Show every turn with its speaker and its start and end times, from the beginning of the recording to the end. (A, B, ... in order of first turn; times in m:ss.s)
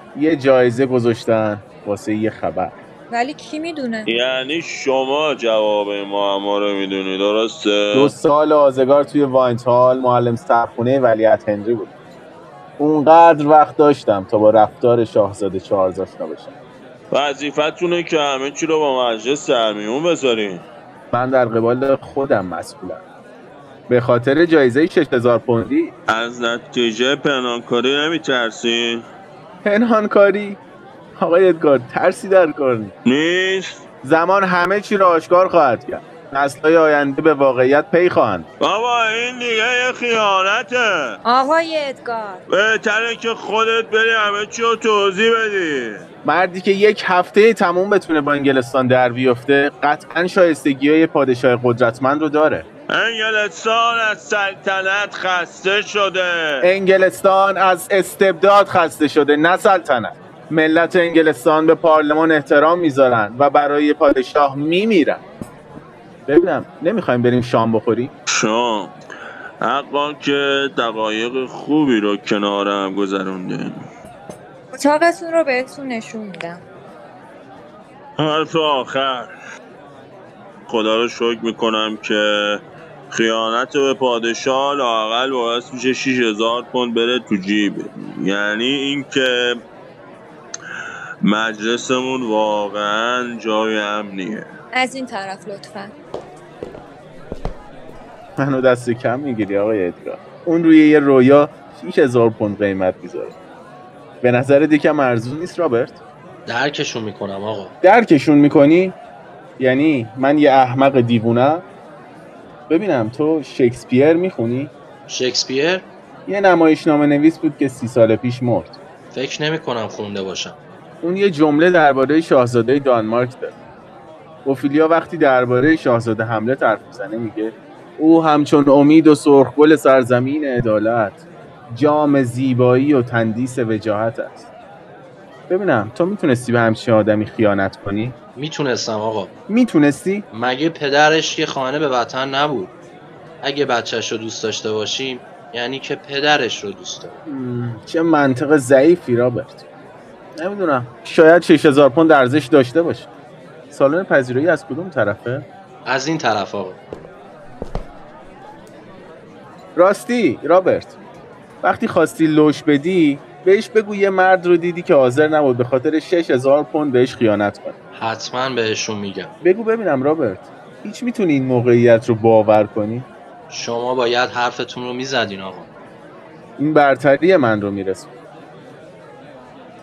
0:00.1-0:02.8 A
0:03.1-0:04.1 B
0:04.0-0:08.1 C
0:07.9-0:11.9 A
0:12.8-0:16.5 A
0:17.1-0:20.6 C
0:21.1-0:23.0 A
0:23.9-0:25.9 A
0:26.1-0:29.0 C
0:29.6-0:30.6 A
0:31.2-0:32.9 A
0:33.0-0:33.8 C
0:34.0-0:38.5 A
0:38.6-0:41.2 C
0:41.2-0:42.4 B
0:42.5-0:46.1 C
0:46.2-0:52.6 A
0:52.9-0:56.7 C
0:56.6-1:05.2 A
1:06.3-1:08.1 A
1:08.3-1:08.9 C
1:09.6-1:13.8 C
1:14.7-1:16.6 B
1:18.2-1:19.3 C
1:20.7-1:29.6 C
1:31.2-1:34.5 C
1:34.7-1:35.9 B
1:38.4-1:43.3 A
1:44.2-1:45.9 A
1:46.5-1:47.7 D
1:47.8-1:49.0 A
1:49.6-1:51.6 A
1:52.7-1:54.7 A
1:55.1-1:55.9 D
1:56.3-1:58.7 A
1:59.1-2:00.6 D
2:01.0-2:03.5 A
2:04.4-2:14.4 A
2:15.5-2:18.2 A
2:18.4-2:19.3 D
2:19.5-2:20.2 A
2:20.3-2:22.7 D
2:23.4-2:27.2 D
2:27.3-2:29.6 A
2:30.4-2:33.1 A
2:33.7-2:35.4 A
2:35.8-2:36.8 D
2:39.8-2:40.9 A
2:41.6-2:47.7 A
2:48.0-2:49.3 D
2:49.4-2:53.1 A
2:53.5-2:55.7 D
2:56.6-2:58.2 A